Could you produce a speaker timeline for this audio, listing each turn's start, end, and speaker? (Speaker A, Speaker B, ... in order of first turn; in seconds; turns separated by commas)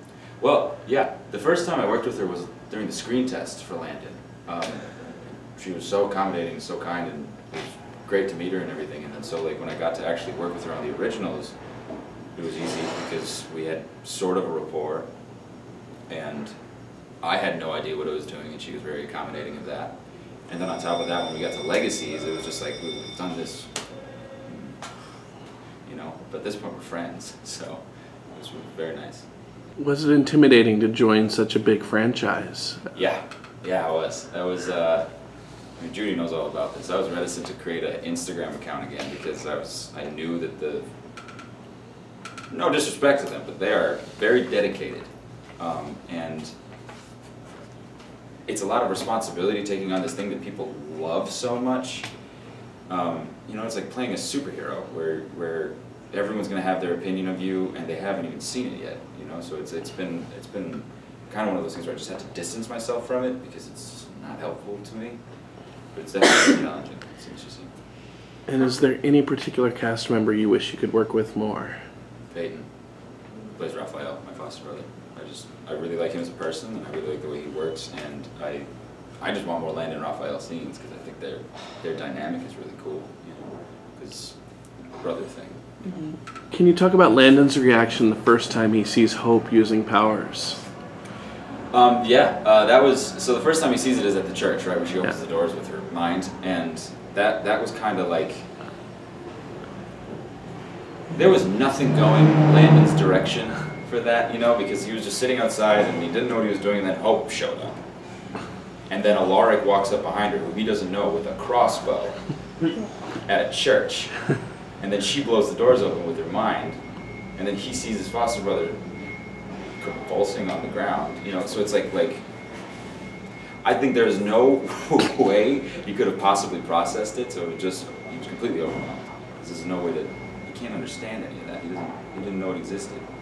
Speaker A: 0.4-4.8, Speaker A: 5.5-11.6, Speaker A: 12.3-15.1, Speaker A: 16.1-16.5, Speaker A: 17.2-19.9, Speaker A: 20.5-23.7, Speaker A: 24.4-24.8, Speaker A: 25.9-29.3, Speaker B: 29.8-32.9, Speaker A: 32.9-35.1, Speaker A: 35.8-40.9, Speaker A: 42.5-46.5, Speaker A: 48.5-52.1, Speaker A: 52.9-65.2, Speaker A: 65.9-67.7, Speaker B: 68.5-71.8, Speaker A: 72.3-72.7, Speaker A: 73.5-78.7, Speaker A: 79.2-84.4, Speaker A: 84.9-85.6, Speaker B: 86.5-90.6, Speaker A: 91.7-98.5, Speaker A: 101.1-107.8, Speaker A: 108.9-112.3, Speaker A: 113.2-114.2, Speaker A: 114.8-116.8, Speaker A: 117.3-118.8, Speaker A: 119.8-122.2, Speaker A: 123.6-133.1